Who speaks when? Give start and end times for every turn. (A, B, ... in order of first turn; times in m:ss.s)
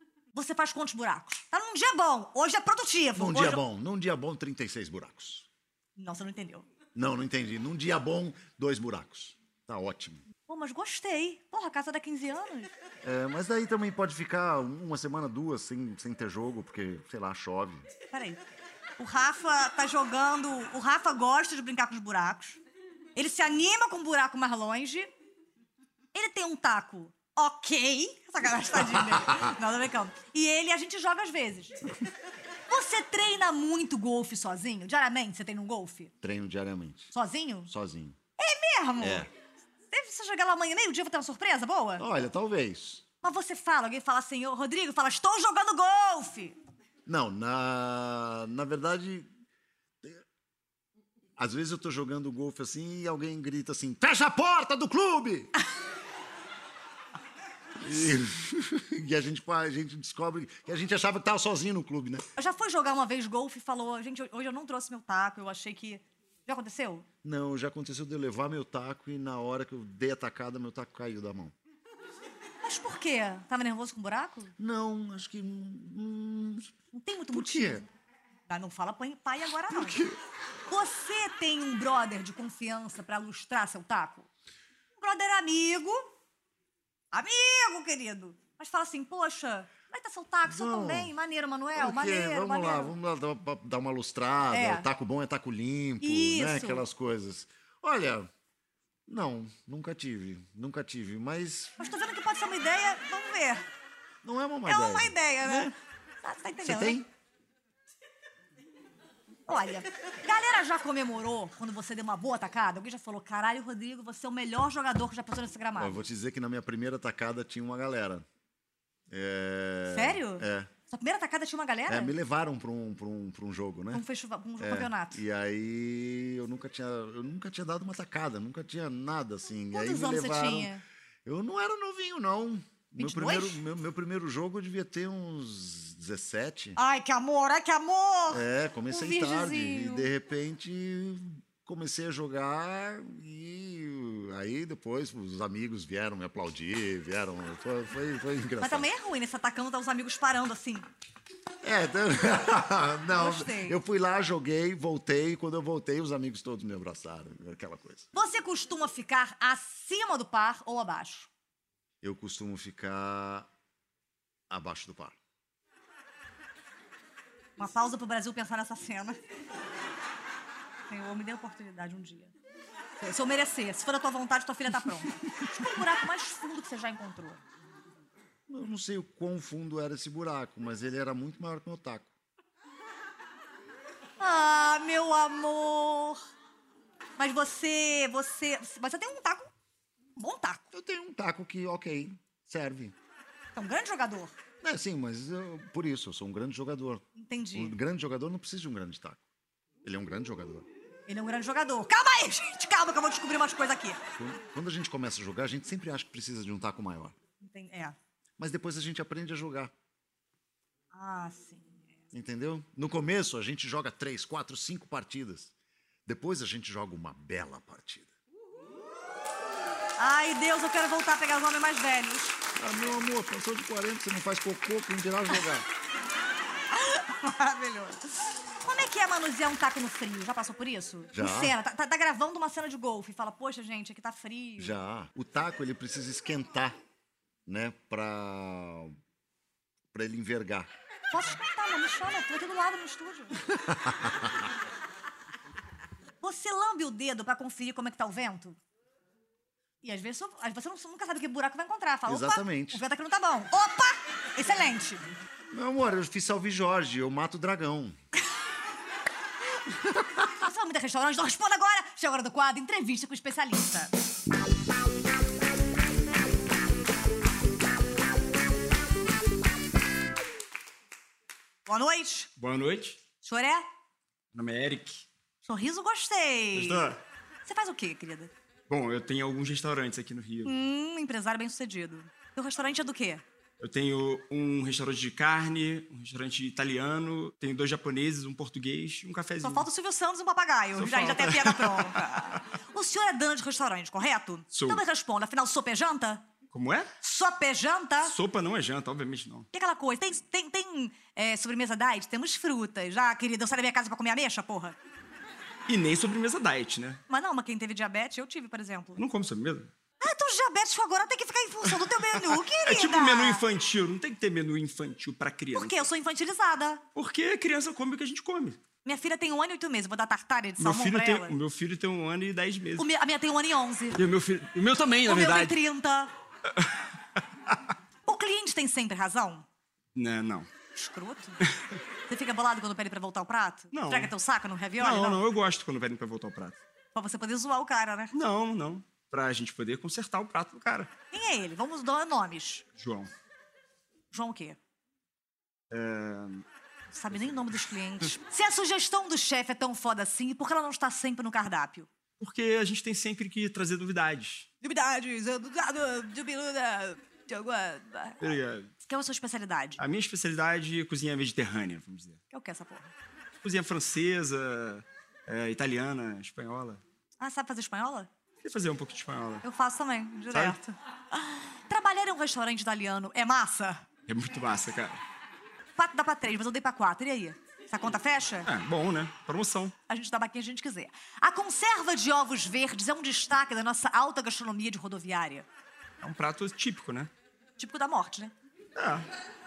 0:00.3-0:03.6 A
0:03.2-0:05.5 B
0:06.0-0:06.7 A
0:07.0-0:10.2 B
0:10.5-0:12.7 A
0:13.0-0:17.9 B
0:18.1-0:18.4 A
0:19.0-0:22.6 A
0:23.2-0:25.1 A
0:26.1-0:31.8 A
0:32.7-0:36.1 A
0:36.2-0:37.1 B
0:37.1-0:37.7 A
0:37.7-0:38.2 B
0:38.4-0:39.3 A
0:39.0-0:39.3 B
0:39.9-0:42.0 A
0:42.0-0:43.0 B
0:43.2-0:46.6 A
0:47.1-0:49.3 B
0:51.4-0:55.5 B
0:57.8-1:02.2 B
1:02.4-1:07.1 A
1:07.2-1:11.5 B
1:12.6-1:14.5 A
1:14.6-1:16.7 B
1:16.9-1:17.9 A
1:17.3-1:17.8 B
1:18.5-1:20.0 A
1:19.7-1:20.2 B
1:20.7-1:24.3 A
1:25.0-1:26.0 A
1:27.1-1:32.9 A
1:30.5-1:31.1 B
1:31.8-1:38.3 B
1:34.5-1:34.9 A
1:36.0-1:36.8 A
1:39.1-1:41.8 B
1:41.8-1:43.6 A
1:44.2-1:45.7 B
1:44.7-1:47.0 A
1:46.6-1:47.1 B
1:49.5-1:56.0 A
1:55.8-1:58.3 B
1:59.1-2:00.7 B
1:59.9-2:02.1 A
2:01.9-2:04.0 B
2:03.9-2:05.2 A
2:04.6-2:10.7 B
2:09.7-2:10.8 A
2:11.2-2:16.8 B
2:13.0-2:13.6 A
2:16.8-2:20.1 A
2:18.3-2:28.9 B
2:28.6-2:30.9 A
2:31.6-2:38.1 B
2:33.2-2:33.8 A
2:38.1-2:41.3 A
2:42.0-2:43.5 B
2:44.5-2:45.2 B
2:47.6-2:49.2 A
2:50.9-2:52.3 A
2:53.0-2:57.4 A
2:58.5-3:02.1 B
3:04.2-3:06.2 A
3:07.2-3:09.5 A
3:10.2-3:10.7 A
3:10.7-3:13.0 B
3:13.6-3:14.3 A
3:14.6-3:19.2 B
3:17.2-3:17.8 A
3:19.8-3:20.7 B
3:21.1-3:24.0 A
3:24.2-3:27.2 B
3:27.4-3:28.0 A
3:28.4-3:29.7 B
3:30.9-3:31.9 A
3:32.1-3:35.5 B
3:36.1-3:38.1 B
3:40.0-3:42.4 A
3:42.6-3:45.7 B
3:46.7-3:54.8 A
3:51.1-3:51.6 B
3:54.6-3:56.8 B
3:57.5-3:59.0 B
3:59.9-4:00.7 B
4:01.1-4:03.5 A
4:03.6-4:04.4 B
4:06.2-4:08.6 A
4:09.8-4:15.0 A
4:12.1-4:12.8 B
4:15.5-4:18.0 B
4:20.2-4:23.9 A
4:31.7-4:32.3 A
4:32.4-4:33.0 C
4:33.2-4:33.6 A
4:34.3-4:35.1 C
4:35.4-4:36.9 A
4:36.6-4:37.0 C
4:37.4-4:38.3 A
4:38.7-4:40.5 C
4:40.4-4:43.2 A
4:43.6-4:49.7 C
4:49.4-4:56.3 A
4:50.8-4:52.4 C
4:54.5-4:54.8 C
4:56.5-4:56.9 C
4:57.0-4:58.2 A
4:58.0-4:59.5 C
4:59.5-5:04.8 A
5:05.7-5:07.0 C
5:07.1-5:09.0 A
5:09.0-5:09.7 C
5:10.0-5:13.4 A
5:12.5-5:15.9 C
5:15.5-5:16.8 A
5:17.0-5:18.6 C
5:18.8-5:21.4 A
5:20.6-5:22.9 C
5:22.8-5:24.0 A
5:24.0-5:25.6 C
5:25.0-5:26.1 A
5:28.1-5:29.5 A
5:30.0-5:30.5 C
5:30.7-5:31.4 A
5:32.1-5:35.2 A
5:33.7-5:34.1 C
5:34.8-5:36.6 C
5:36.9-5:38.2 A
5:38.1-5:40.9 C
5:41.1-5:42.7 A
5:42.8-5:43.1 C
5:44.1-5:44.6 A
5:45.7-5:46.4 C
5:46.9-5:51.9 A
5:47.1-5:47.5 C
5:52.2-5:54.5 C
5:54.6-5:59.8 A
5:58.2-5:58.7 C
5:59.8-6:02.2 C
6:02.3-6:02.9 A
6:03.4-6:06.8 C
6:07.2-6:08.1 A
6:08.4-6:09.4 C
6:09.4-6:13.8 A
6:10.3-6:10.6 C
6:14.1-6:15.0 C
6:15.8-6:18.5 A
6:18.5-6:19.7 C
6:19.9-6:25.5 A
6:26.0-6:27.1 C
6:27.6-6:28.3 A
6:28.8-6:29.1 C